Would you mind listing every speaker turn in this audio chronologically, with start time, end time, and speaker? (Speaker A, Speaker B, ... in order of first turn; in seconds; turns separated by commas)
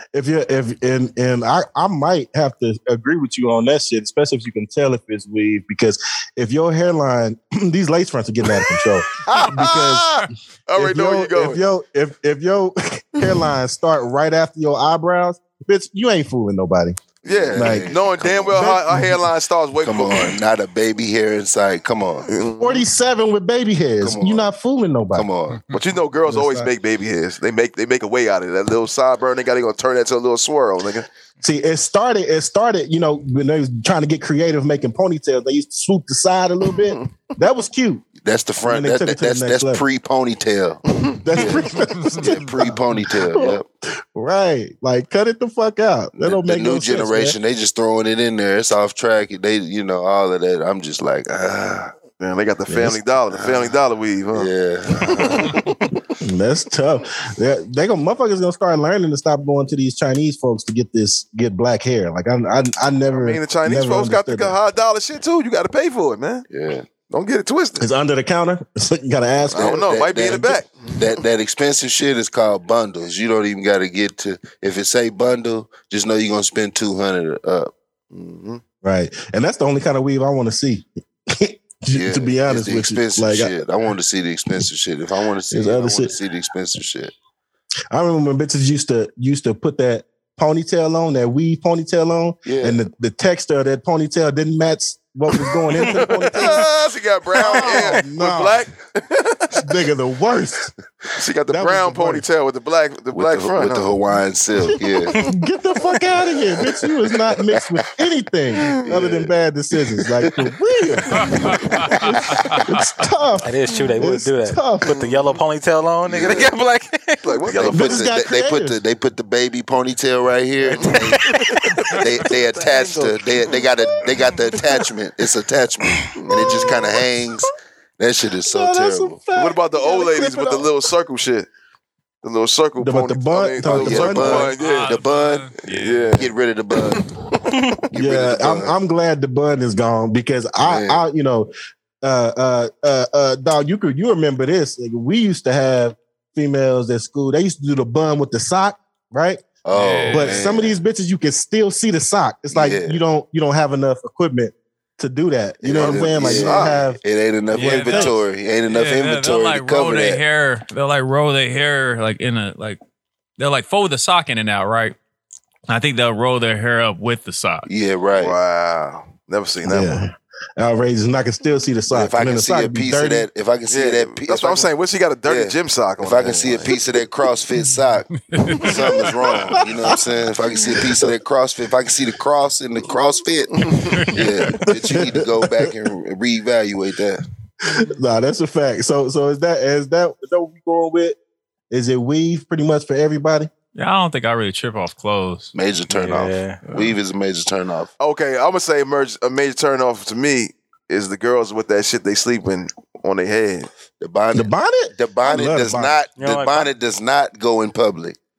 Speaker A: 0.1-10.2, Speaker B: 9.2-11.6, Speaker A: 10.8-17.0, Speaker C: 17.2-18.7, Speaker B: 17.2-20.3, Speaker A: 17.5-17.9, Speaker A: 18.5-19.2, Speaker C: 19.8-22.3, Speaker B: 22.3-22.9, Speaker A: 22.6-25.3, Speaker C: 24.0-24.5, Speaker C: 25.1-25.7, Speaker B: 25.7-31.1, Speaker A: 26.2-26.7, Speaker A: 31.4-38.0, Speaker C: 38.2-40.8, Speaker A: 38.6-39.8, Speaker B: 41.0-41.5, Speaker A: 41.2-43.6, Speaker C: 41.3-43.6, Speaker A: 44.1-47.4, Speaker C: 46.2-51.9, Speaker B: 52.2-54.5, Speaker A: 52.7-53.0, Speaker C: 53.3-53.7, Speaker C: 54.3-55.7, Speaker B: 55.1-55.6, Speaker A: 56.2-64.5, Speaker B: 63.1-66.5, Speaker C: 66.5-66.9, Speaker B: 67.1-67.8, Speaker A: 67.8-69.8, Speaker B: 69.5-70.9, Speaker C: 69.5-77.7, Speaker B: 78.1-78.6, Speaker A: 78.8-83.5, Speaker C: 81.9-87.1, Speaker A: 85.5-86.1, Speaker A: 87.9-96.7, Speaker C: 92.4-92.8, Speaker B: 95.7-99.6, Speaker A: 97.3-98.6, Speaker A: 99.5-100.7, Speaker B: 101.2-103.9, Speaker A: 101.5-102.2, Speaker C: 103.1-105.2, Speaker A: 104.6-115.0, Speaker C: 108.8-109.3, Speaker D: 111.2-112.6, Speaker E: 113.4-117.4, Speaker C: 116.0-116.5, Speaker B: 117.2-118.0, Speaker C: 117.5-121.2, Speaker A: 117.7-118.8, Speaker B: 120.7-122.0, Speaker C: 122.0-129.2, Speaker A: 122.5-123.1, Speaker A: 126.3-126.7, Speaker A: 128.4-130.7, Speaker B: 129.3-131.5, Speaker B: 132.2-134.9, Speaker A: 132.8-134.5, Speaker C: 133.6-135.5, Speaker D: 134.6-136.2, Speaker B: 135.7-136.3, Speaker C: 136.1-137.0, Speaker C: 137.9-138.7, Speaker A: 137.9-141.5, Speaker C: 140.6-141.0, Speaker A: 142.0-149.5, Speaker C: 149.6-150.8, Speaker D: 149.7-150.4, Speaker A: 150.1-157.0, Speaker C: 152.5-153.0, Speaker C: 155.6-160.2, Speaker B: 155.8-156.8, Speaker D: 157.5-162.8, Speaker A: 157.5-158.1, Speaker D: 163.4-164.9, Speaker D: 165.7-167.7, Speaker C: 167.7-168.3, Speaker B: 168.2-170.0, Speaker A: 169.6-173.3, Speaker C: 171.9-174.7, Speaker B: 173.7-176.8, Speaker C: 175.2-178.1, Speaker D: 178.2-179.4, Speaker C: 178.6-187.2, Speaker A: 179.6-179.9, Speaker D: 183.9-184.6, Speaker A: 184.8-185.7, Speaker A: 187.7-191.2, Speaker A: 191.7-193.5, Speaker D: 193.7-195.5, Speaker C: 195.5-197.9, Speaker E: 195.9-196.7, Speaker B: 198.0-203.7, Speaker C: 204.0-208.2, Speaker A: 204.3-206.0, Speaker E: 206.1-206.7